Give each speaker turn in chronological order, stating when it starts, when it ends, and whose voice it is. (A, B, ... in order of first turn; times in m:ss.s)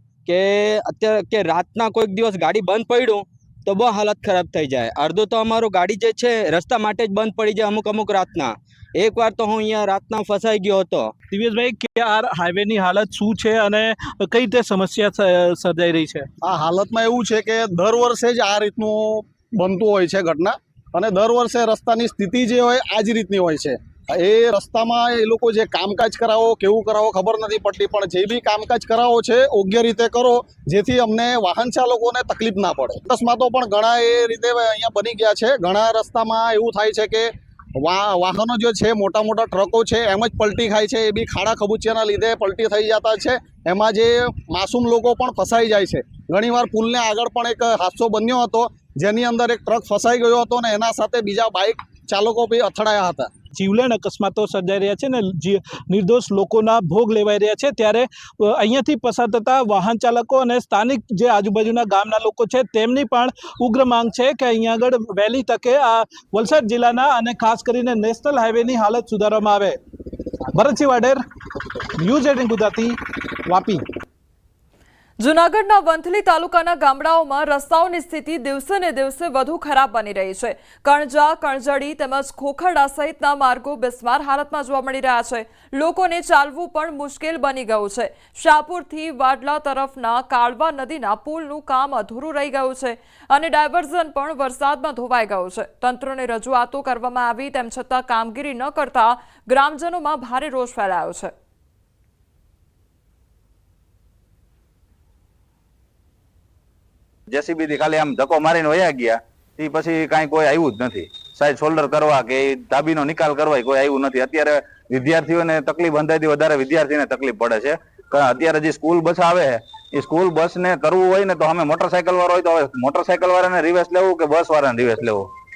0:00.3-0:11.1 A
0:11.3-0:16.3 B
0:16.4-0:37.3 C
0:37.8-0:53.3 C
0:53.5-1:09.8 B
1:10.5-1:11.2 B
1:12.0-1:13.8 B
1:15.2-1:41.3 D
1:47.3-2:05.3 E